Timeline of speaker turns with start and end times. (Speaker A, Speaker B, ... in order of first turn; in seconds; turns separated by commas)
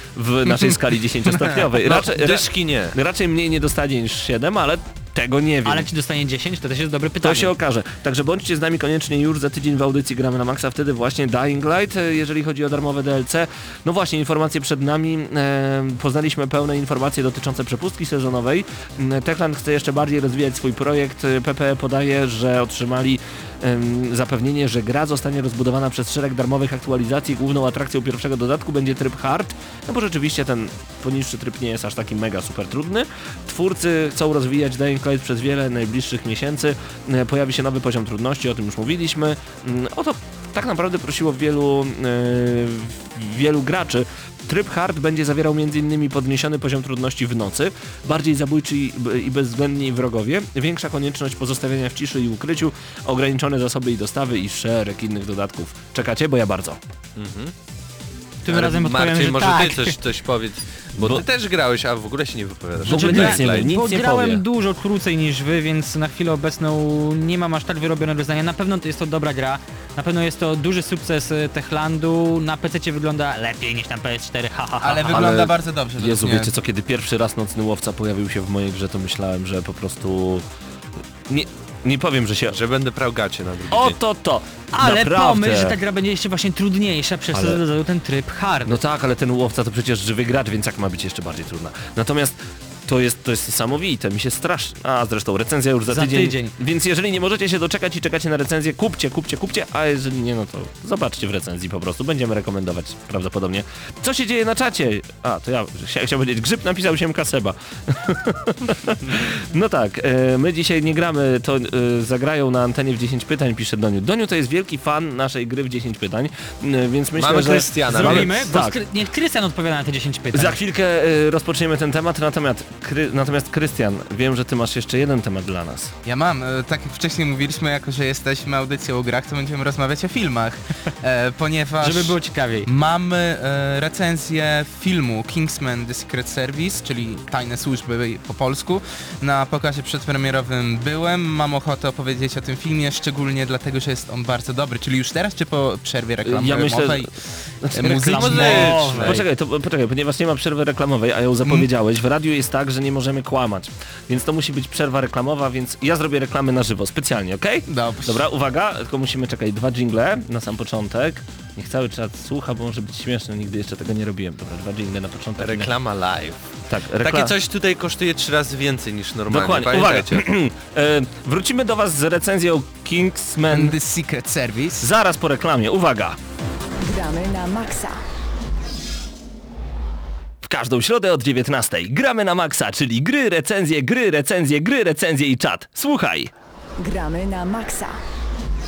Speaker A: 0.1-5.9, Speaker B: 1.3-1.6, Speaker C: 1.8-2.9, Speaker D: 5.6-7.5, Speaker A: 7.2-56.8, Speaker C: 57.1-57.5, Speaker D: 58.4-60.0, Speaker C: 58.5-63.7, Speaker A: 62.8-64.4, Speaker D: 62.9-75.2, Speaker B: 74.8-76.5, Speaker A: 75.1-80.4, Speaker A: 81.3-82.5, Speaker C: 82.5-84.0, Speaker A: 83.7-85.7, Speaker D: 84.7-88.8, Speaker A: 87.3-87.6, Speaker A: 88.7-118.8, Speaker D: 95.9-96.5, Speaker C: 117.2-118.5, Speaker D: 117.9-120.6, Speaker A: 120.3-125.9, Speaker B: 126.0-147.1, Speaker D: 131.8-132.7, Speaker A: 146.2-147.1, Speaker A: 147.6-165.7, Speaker B: 147.7-148.7, Speaker D: 148.0-149.2, Speaker C: 148.1-149.2, Speaker B: 157.7-158.3, Speaker C: 165.4-166.4, Speaker A: 166.7-167.3, Speaker C: 167.0-170.2, Speaker A: 169.3-173.8, Speaker B: 173.5-174.9, Speaker A: 174.8-176.2, Speaker E: 176.8-178.0, Speaker A: 180.4-186.3, Speaker E: 186.8-187.9